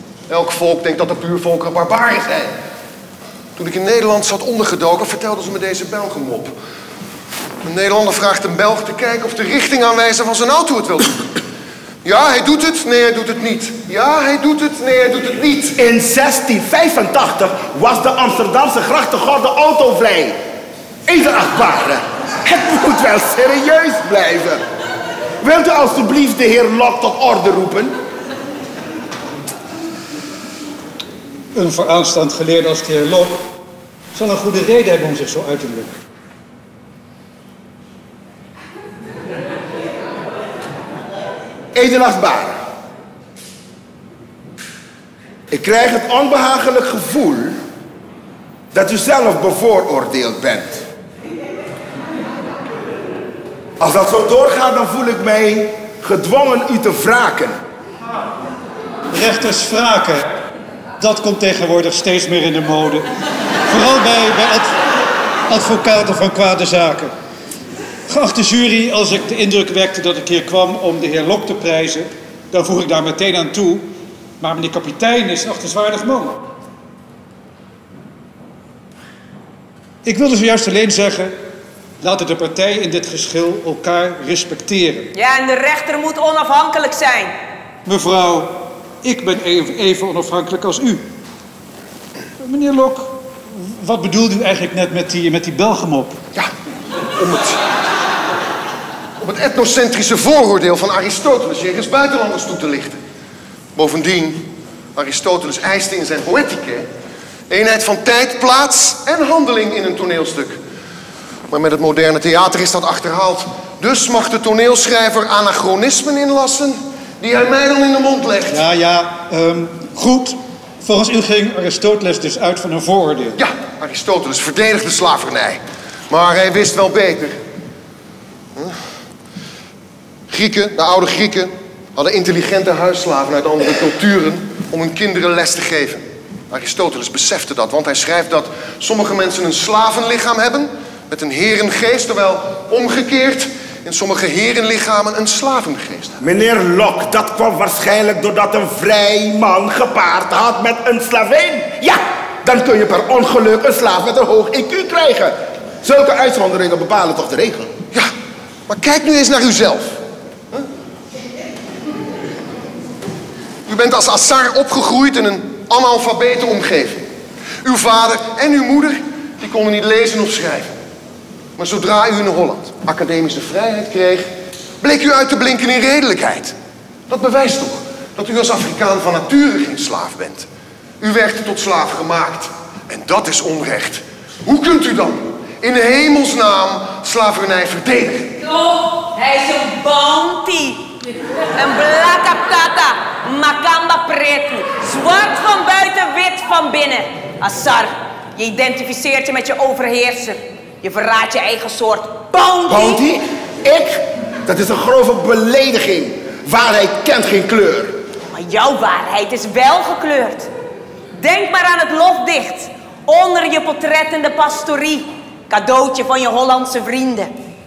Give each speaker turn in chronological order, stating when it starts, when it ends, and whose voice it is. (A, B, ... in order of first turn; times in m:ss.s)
0:00.3-0:02.5 A
0:03.6-0:06.5 A
0:07.6-0:11.2 A
0:12.0-0:15.8 A
0:15.8-0:20.4 B
0:21.0-0:24.6 B
0:25.4-0:28.0 B
0:31.5-0:33.4 C
0:34.1-0:35.9 C
0:41.7-0:42.6 B
0:45.5-0:47.6 B
0:48.7-0:50.8 B
0:53.8-0:57.6 B
0:59.1-1:00.4 C
1:01.0-1:03.1 C
1:03.7-1:04.8 C
1:05.5-1:07.1 C
1:08.1-1:13.9 C
1:14.4-1:16.4 C
1:20.0-1:21.3 C
1:22.0-1:25.1 C
1:25.1-1:27.3 D
1:27.8-1:31.0 C
1:32.4-1:36.2 C
1:37.2-1:37.6 A
1:39.2-1:43.0 A
1:43.7-1:46.9 A
1:47.5-1:50.6 A
1:51.5-1:58.6 A
1:58.5-2:03.4 C
2:03.4-2:07.4 A
2:10.3-2:26.2 A
2:26.2-2:37.7 B
2:38.7-2:40.0 A
2:43.7-2:47.0 A
2:47.6-2:50.7 A
2:51.6-2:54.3 A
2:54.8-2:56.5 A
2:57.1-3:00.4 A
3:01.0-3:08.3 A
3:08.4-3:10.9 D
3:11.5-3:23.0 D
3:22.7-3:28.0 B
3:28.3-3:30.5 D
3:31.1-3:37.3 D